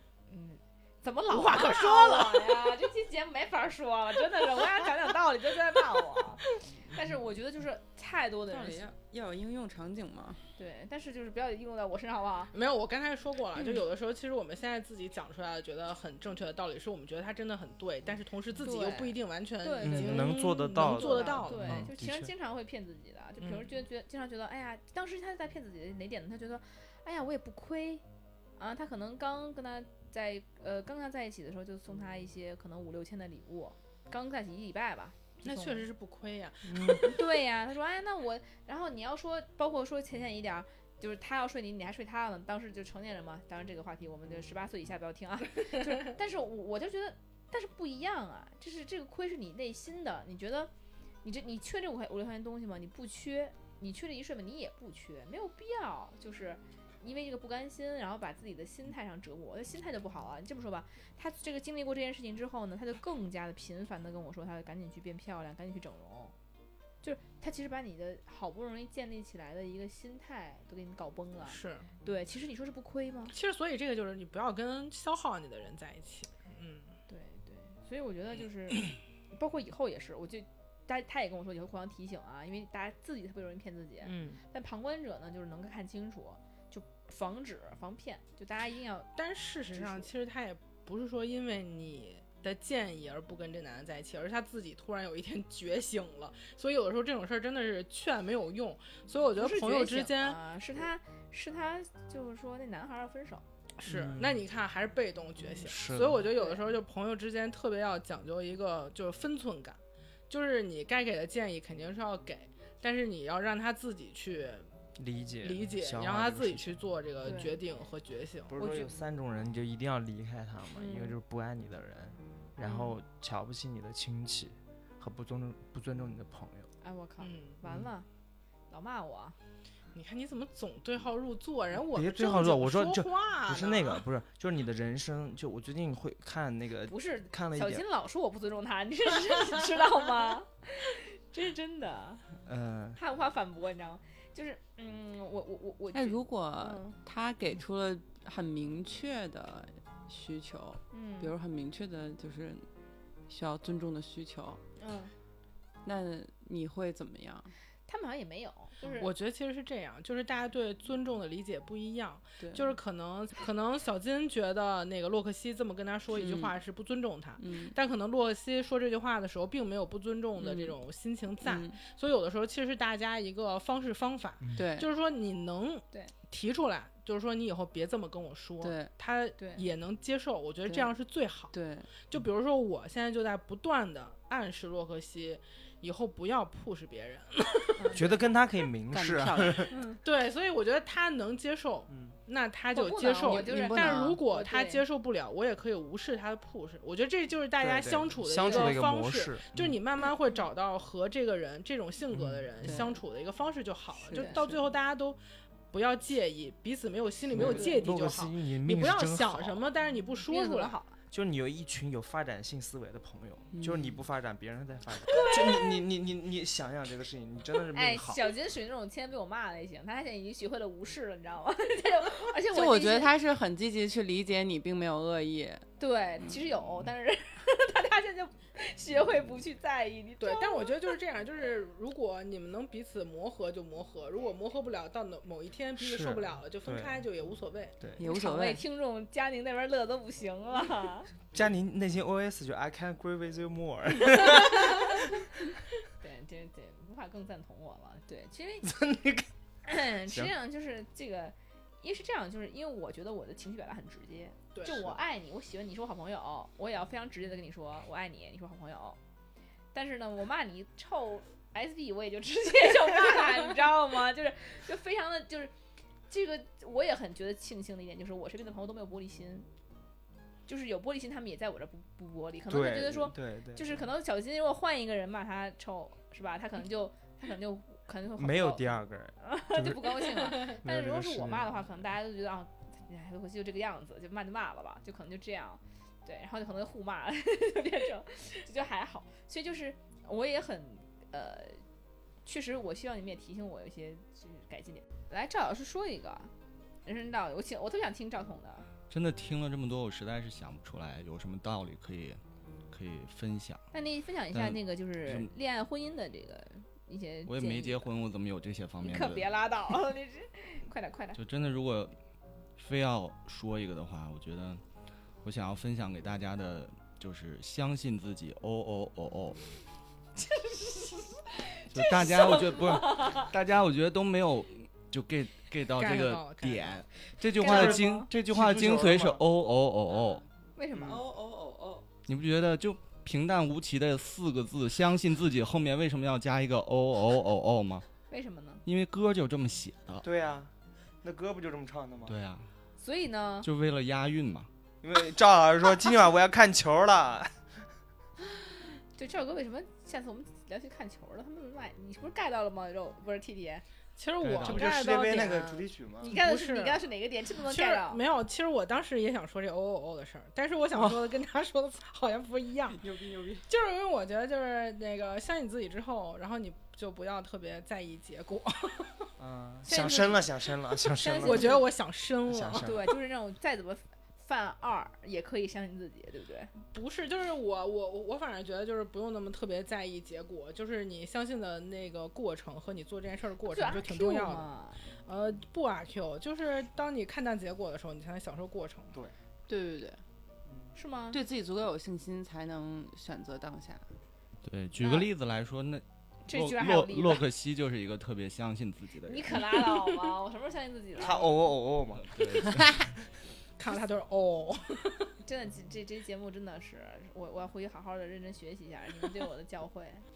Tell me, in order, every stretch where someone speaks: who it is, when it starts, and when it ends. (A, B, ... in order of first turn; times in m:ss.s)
0:00.3-0:08.9 A
0:01.3-0:02.7 B
0:08.5-0:10.4 C
0:10.6-0:12.5 A
0:12.5-0:21.9 B
0:18.6-0:28.0 A
0:19.8-0:22.3 D
0:23.4-0:23.7 B
0:28.6-0:35.9 A
0:35.4-0:37.0 B
0:36.7-0:37.2 D
0:36.9-0:50.7 A
0:51.2-1:06.4 A
1:07.0-1:13.4 A
1:11.5-1:11.9 B
1:13.3-1:16.9 B
1:17.1-1:29.1 A
1:24.0-1:24.4 B
1:29.2-1:40.4 B
1:29.7-1:30.1 A
1:39.4-1:43.4 A
1:43.8-1:54.7 B
1:43.9-1:44.4 D
1:45.6-1:46.2 D
1:46.2-1:46.7 A
1:55.0-1:56.8 D
1:55.4-1:58.6 B
1:57.2-1:57.6 A
1:58.5-2:06.7 D
1:58.6-1:58.9 A
2:00.8-2:01.2 A
2:02.6-2:02.9 A
2:06.8-2:08.1 A
2:07.2-2:07.6 B
2:08.7-2:09.4 A
2:09.9-2:14.0 B
2:11.9-2:17.8 D
2:16.9-2:22.3 A
2:22.4-2:23.0 D
2:23.0-2:27.0 A
2:25.9-2:32.7 C
2:30.9-2:31.4 A
2:33.3-2:34.6 C
2:34.8-2:35.1 A
2:35.8-2:37.5 C
2:37.9-2:39.1 A
2:39.0-3:01.5 B
2:42.4-2:42.7 A
2:46.1-2:46.6 C
2:47.4-2:47.8 C
2:50.4-2:50.8 C
2:51.4-2:51.8 C
2:54.4-2:54.7 D
2:54.6-2:54.9 C
2:58.6-2:58.9 C
2:59.4-2:59.7 A
3:00.6-3:00.9 C
3:01.5-3:01.9 C
3:02.1-3:07.8 B
3:07.8-3:08.2 A
3:07.9-3:09.8 D
3:08.9-3:09.7 C
3:09.7-3:10.0 A
3:10.0-3:25.2 B
3:11.9-3:12.2 D
3:12.7-3:14.8 A
3:13.2-3:14.2 C
3:17.6-3:19.8 D
3:18.4-3:18.8 A
3:22.1-3:22.8 D
3:22.6-3:23.0 C
3:24.0-3:24.6 C
3:24.1-3:24.5 A
3:25.7-3:30.8 B
3:27.3-3:29.7 D
3:27.4-3:28.0 A
3:30.3-3:31.0 A
3:31.1-3:38.3 D
3:33.5-3:34.0 C
3:35.0-3:35.8 A
3:37.7-3:43.1 A
3:42.5-3:45.7 C
3:45.8-3:50.9 A
3:50.2-3:57.8 B
3:55.8-3:57.0 D
3:58.0-3:58.6 C
3:58.0-4:01.1 A
4:01.3-4:05.4 D
4:04.5-4:05.0 A
4:06.0-4:08.8 A
4:08.6-4:09.3 D
4:09.6-4:19.0 A
4:14.5-4:15.0 B
4:19.7-4:25.5 A
4:26.1-4:29.5 A
4:30.5-4:51.6 A
4:32.5-4:33.9 D
4:38.2-4:41.8 D
4:52.2-4:56.3 A
4:56.8-4:58.7 A
4:58.9-5:02.2 E
5:02.7-5:03.6 E
5:03.7-5:07.9 A
5:04.3-5:05.3 E
5:07.3-5:09.3 E
5:08.8-5:11.2 A
5:11.2-5:12.0 E
5:12.6-5:14.6 E
5:15.2-5:19.4 E
5:20.2-5:23.3 A
5:21.7-5:30.2 E
5:25.8-5:26.8 B
5:27.4-5:28.1 A
5:27.4-5:29.2 D
5:29.9-5:30.2 C
5:30.6-5:31.0 A
5:30.7-5:31.0 D
5:30.9-5:31.9 C
5:32.1-5:37.9 E
5:38.1-5:38.6 A
5:38.6-5:40.0 E
5:40.0-5:40.5 D
5:41.0-5:42.2 D
5:42.1-5:42.5 E
5:42.8-5:43.5 A
5:43.4-5:44.5 E
5:44.8-5:47.4 D
5:49.0-5:53.6 A
5:54.0-5:56.9 B
5:54.2-5:56.2 D
5:54.3-5:54.6 E
5:54.4-5:58.0 A
5:57.4-6:02.8 B
6:02.7-6:03.5 C
6:03.5-6:09.1 B
6:09.2-6:11.6 D
6:09.6-6:10.3 A
6:10.9-6:11.7 A
6:11.2-6:12.7 B
6:12.2-6:12.9 D
6:12.6-6:16.5 A
6:16.7-6:24.5 B
6:23.5-6:24.9 A
6:25.0-6:28.9 B
6:29.5-6:30.0 C
6:30.7-6:31.2 A
6:31.1-6:33.9 C
6:34.4-6:39.9 E
6:34.8-6:35.1 A
6:36.3-6:37.2 A
6:39.1-6:41.4 A
6:41.0-6:42.8 D
6:42.1-6:42.7 E
6:43.6-6:45.1 B
6:45.2-6:50.0 A